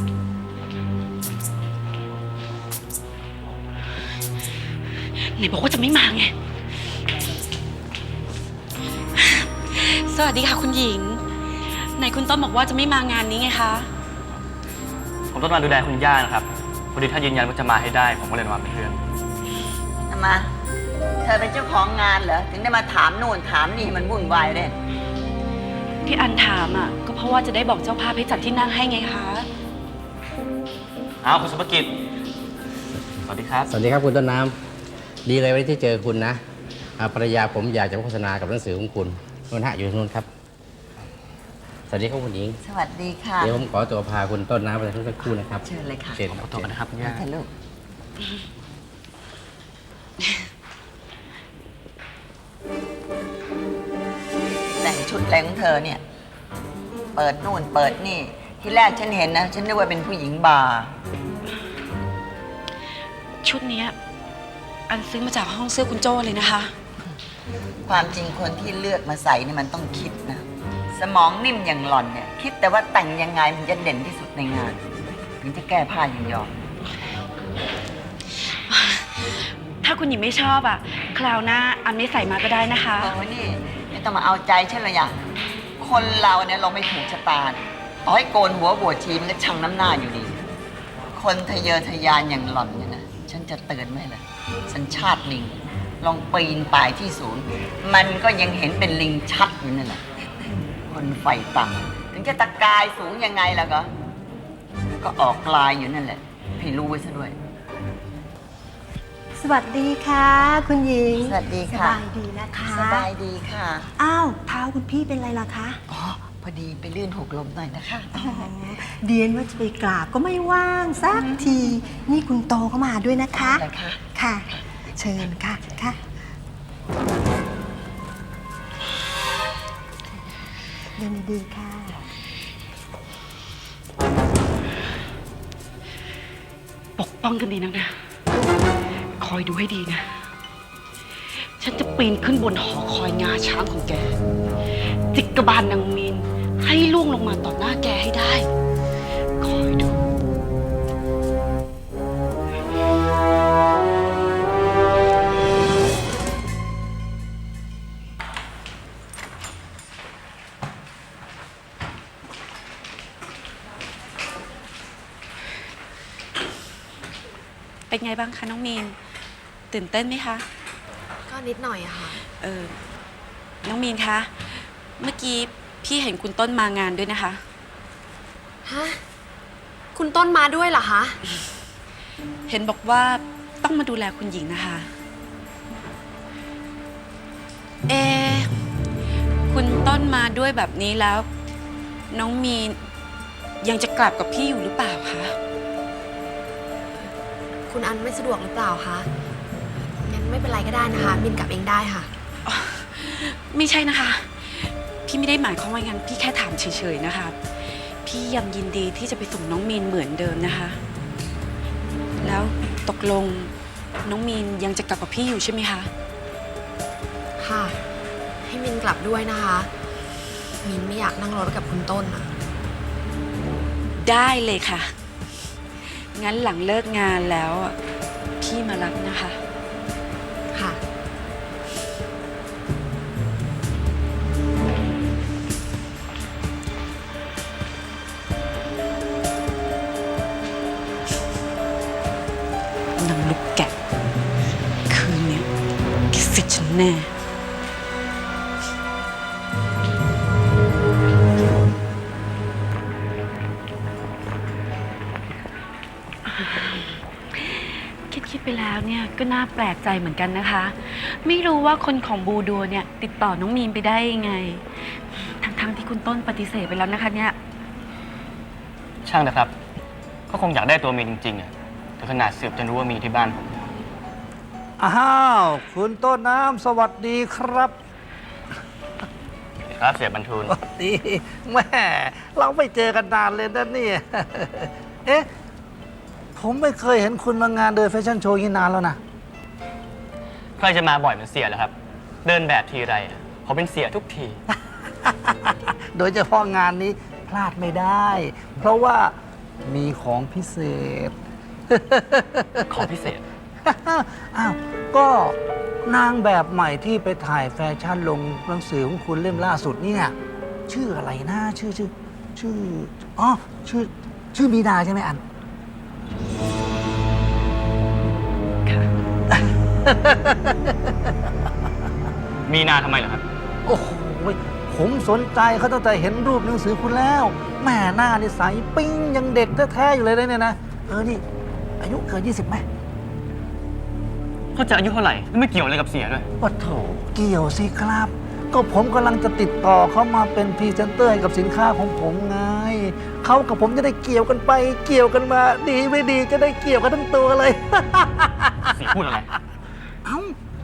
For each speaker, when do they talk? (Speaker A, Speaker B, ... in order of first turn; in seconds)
Speaker A: 5.2-6.3, 9.2-11.2, 11.8-13.9, 26.0-29.5, 63.4-63.9, 64.9-66.7, 78.5-83.1, 137.0-137.9, 139.2-140.1, 141.6-144.2, 145.1-148.5, 149.4-150.0, 167.9-169.0, 169.7-170.4, 172.4-172.8, 173.6-177.4, 182.5-184.9, 187.9-188.5, 189.5-191.3, 192.1-192.8, 193.6-195.4, 202.5-210.8, 212.2-213.5, 214.0-215.9, 224.0-224.9, 225.9-227.8, 228.4-229.4, 243.0-243.7, 244.9-245.5, 246.1-247.1, 256.3-267.4
Speaker B: 15.3-19.0, 31.2-31.9, 33.3-33.7, 46.3-47.2, 269.1-269.5, 270.3-273.5, 279.7-280.6, 290.6-291.7, 292.2-294.4, 302.7-303.2, 322.5-323.2, 334.6-336.2, 348.7-349.3
Speaker C: 20.1-20.5, 21.2-24.8, 42.6-43.6, 45.5-47.5, 54.7-56.0, 57.1-61.0, 67.9-74.8, 75.4-76.5, 83.0-85.2, 85.8-90.4, 91.1-100.0, 100.9-103.9, 105.0-107.4, 111.2-112.0, 112.6-113.9, 115.9-118.6, 123.3-124.0
Speaker D: 33.7-34.6, 35.2-36.4, 37.0-40.3, 41.9-42.6, 43.4-46.7
Speaker E: 109.4-113.1, 114.0-115.8, 118.1-123.6, 124.2-124.5, 125.0-126.0, 131.0-132.0
Speaker F: 171.3-172.2, 178.7-179.0, 179.9-181.2, 197.7-199.1, 200.0-202.1, 217.4-217.8, 218.4-219.7, 220.6-222.3, 230.5-230.8
Speaker G: 274.8-277.8, 280.5-285.3, 286.4-289.0, 294.5-299.1, 299.6-301.1, 301.7-302.9, 303.6-310.1, 310.7-315.2, 319.3-321.1, 323.7-331.2, 331.8-332.6, 336.4-348.9, 350.1-350.4